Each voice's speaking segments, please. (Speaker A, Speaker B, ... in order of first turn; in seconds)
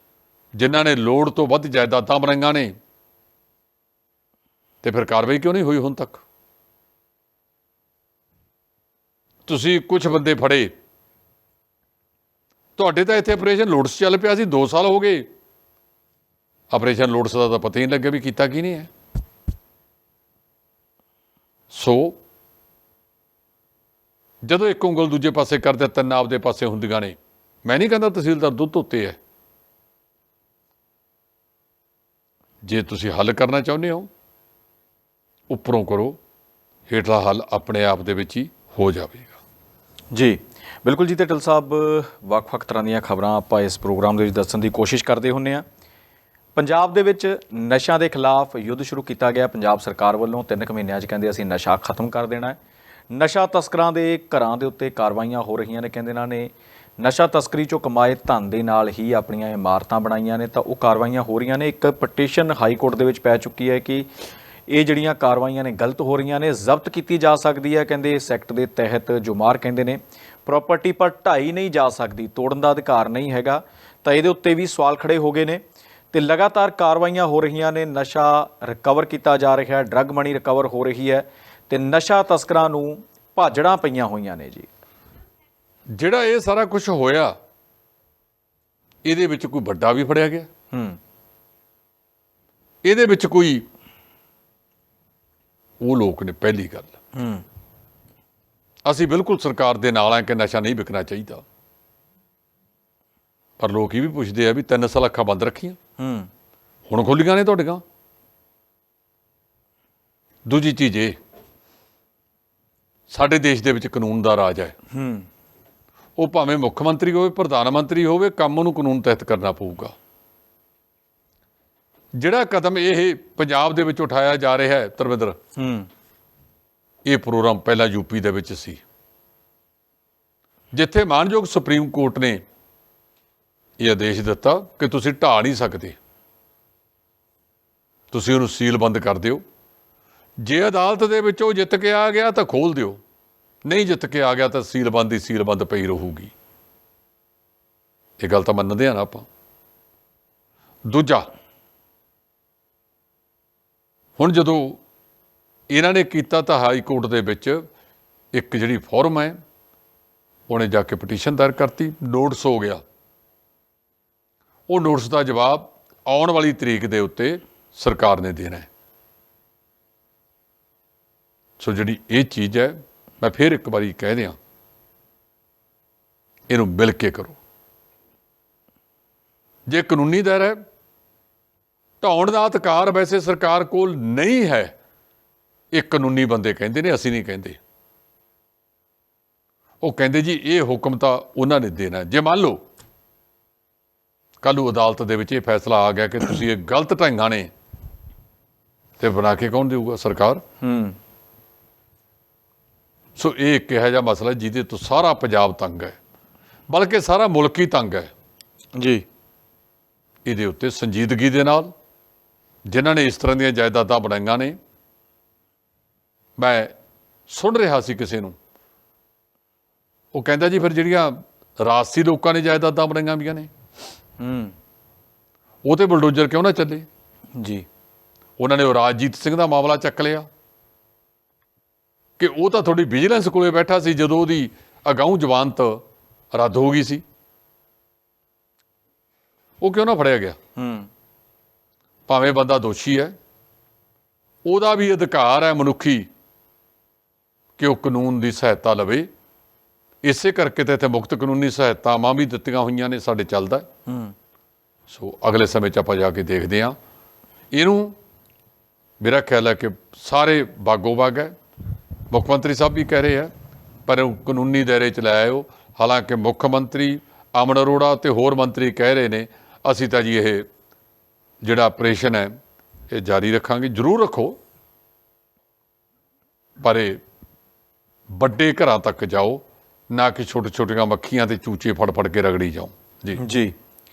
Speaker A: 0.6-2.7, 4.8-6.2, 9.4-10.7, 12.8-15.3, 16.7-18.9, 21.7-22.2, 24.4-29.2, 32.6-34.1, 35.5-36.2, 36.9-39.4, 85.9-87.3, 89.0-90.5, 92.8-93.7, 95.8-96.9, 98.8-101.4, 103.6-105.8, 106.9-107.8, 110.5-111.2, 113.1-114.7, 116.2-119.9, 122.1-125.4, 127.0-128.8, 130.7-132.4, 133.8-135.9, 138.1-139.4, 140.4-143.0, 143.6-146.3, 148.2-149.3, 150.9-151.3, 154.2-154.8, 155.7-157.6, 158.3-159.4, 160.5-162.8, 164.7-168.7, 171.6-174.4, 176.5-177.4, 179.7-180.6, 182.0-184.7, 185.7-187.6, 189.8-192.6, 194.4-197.5, 199.0-200.4, 203.2-206.0, 206.7-208.1, 210.2-211.7, 212.7-214.6, 216.4-216.7, 217.3-218.4, 220.1-223.5, 225.7-226.9, 228.4-230.3, 232.2-237.0, 239.6-240.4, 242.1-243.1, 244.4-246.1, 247.6-249.1, 250.0-253.7, 254.9-256.8, 257.5-257.9, 259.0-261.4, 262.1-263.3, 263.9-270.4, 271.4-272.3, 272.9-274.4, 276.6-277.0, 278.1-283.2
Speaker B: 40.1-45.6, 46.5-52.6, 53.1-64.1, 64.7-75.6, 76.1-84.7, 90.7-91.0, 97.1-97.4, 106.0-106.3, 114.9-115.3, 125.5-125.9, 200.6-200.9, 208.8-209.0, 224.2-224.5, 227.3-227.7, 240.6-240.9, 253.9-254.1, 283.1-283.6